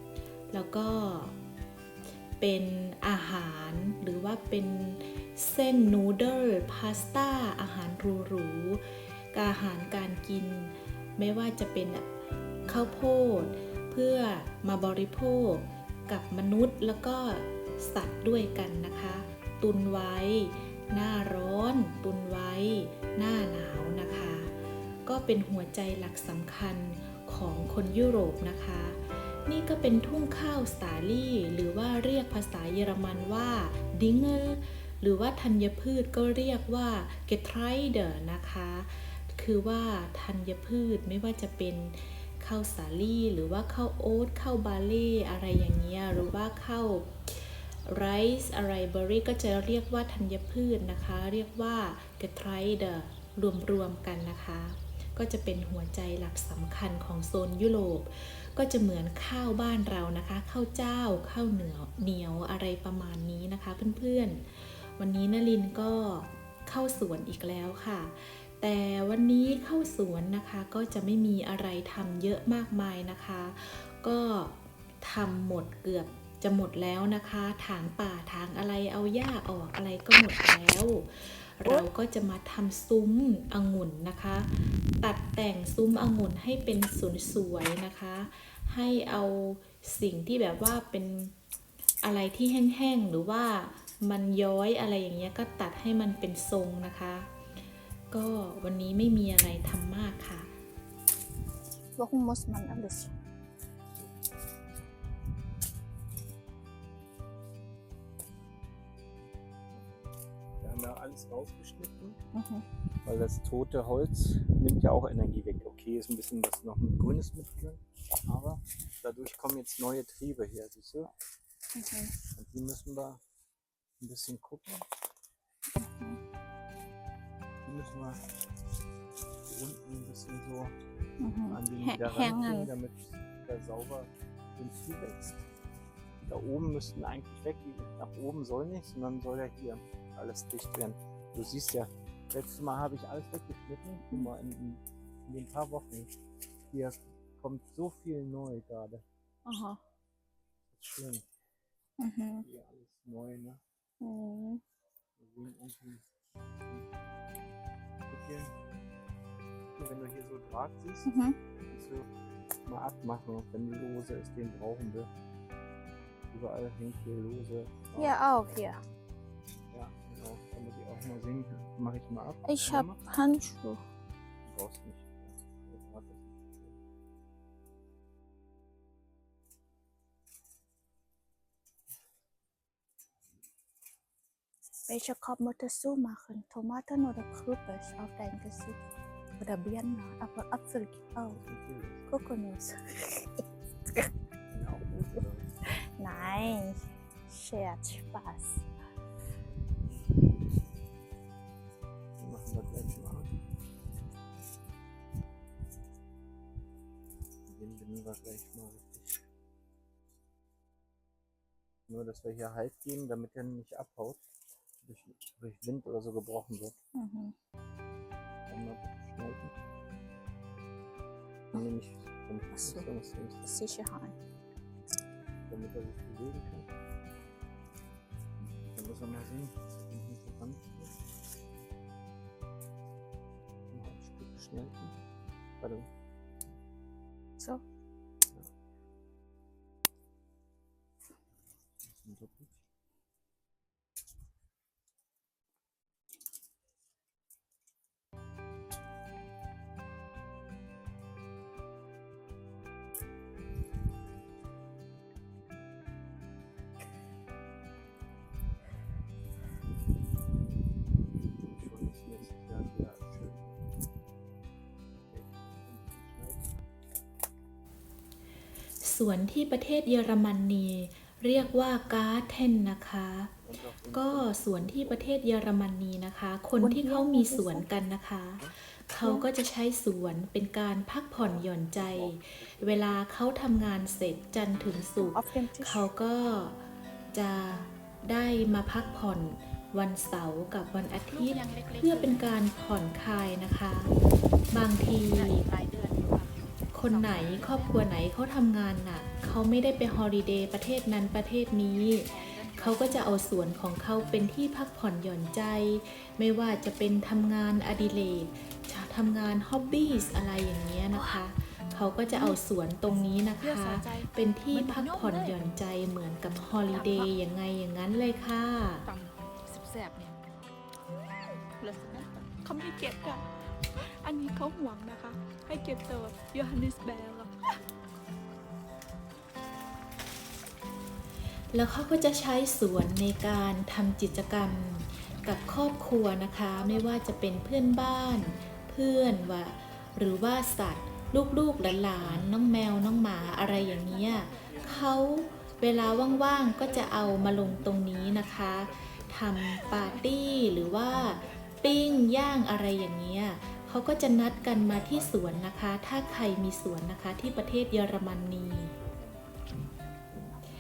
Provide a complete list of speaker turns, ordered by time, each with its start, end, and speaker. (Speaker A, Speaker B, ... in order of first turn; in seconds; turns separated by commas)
Speaker A: 0.5-1.4, Speaker A: 2.4-12.1, Speaker A: 12.7-24.5, Speaker A: 25.1-91.3, Speaker A: 92.0-97.3, Speaker A: 98.1-100.5, Speaker B: 102.0-103.1, Speaker C: 109.7-110.1, Speaker C: 110.6-112.2, Speaker B: 112.3-112.7, Speaker C: 113.0-121.1, Speaker B: 121.8-122.1, Speaker C: 122.3-123.2, Speaker C: 124.0-124.9, Speaker B: 125.8-126.2, Speaker C: 127.6-128.2, Speaker C: 129.4-130.8, Speaker B: 131.2-132.7, Speaker C: 131.5-135.5, Speaker C: 136.2-146.1, Speaker C: 146.7-149.0, Speaker B: 149.5-149.8, Speaker C: 150.7-151.3, Speaker B: 152.0-152.4, Speaker C: 152.4-153.6, Speaker B: 154.0-154.6, Speaker C: 155.2-156.1, Speaker C: 156.7-156.9, Speaker C: 158.1-158.5, Speaker C: 159.7-161.1, Speaker B: 161.1-161.4, Speaker C: 161.7-162.1, Speaker C: 162.7-165.1, Speaker C: 166.3-168.2, Speaker B: 168.0-168.8, Speaker C: 169.7-173.0, Speaker B: 172.4-173.8, Speaker C: 174.5-176.8, Speaker B: 184.9-188.8, Speaker B: 189.4-191.4, Speaker C: 191.4-192.1, Speaker B: 192.1-194.1, Speaker C: 194.5-195.5, Speaker B: 196.0-198.6, Speaker C: 202.2-203.4, Speaker C: 207.5-209.2, Speaker C: 211.9-214.2, Speaker C: 214.8-216.8, Speaker B: 216.9-217.3, Speaker C: 218.5-219.5, Speaker C: 221.5-223.5, Speaker B: 222.5-222.8, Speaker B: 223.4-224.2, Speaker C: 225.5-226.7, Speaker C: 228.7-231.0, Speaker C: 233.7-235.1, Speaker C: 235.6-235.9, Speaker C: 241.8-242.6, Speaker C: 261.1-263.6, Speaker C: 265.1-266.5, Speaker A: 268.8-273.3, Speaker C: 273.4-275.1, Speaker A: 273.9-293.9, Speaker B: 276.6-277.7, Speaker B: 279.0-279.2, Speaker C: 281.2-283.0, Speaker B: 285.0-285.9, Speaker B: 291.1-292.3, Speaker A: 294.5-295.4, Speaker B: 295.1-296.3, Speaker A: 296.7-318.9, Speaker B: 296.9-297.7, Speaker B: 302.1-303.0, Speaker B: 310.9-311.2, Speaker B: 312.1-312.4, Speaker B: 313.4-315.4, Speaker B: 316.7-317.1, Speaker B: 318.9-320.2, Speaker B: 321.6-327.5, Speaker A: 331.5-358.7, Speaker B: 336.6-336.9, Speaker C: 345.6-349.2, Speaker C: 354.5-356.0, Speaker C: 358.4-359.8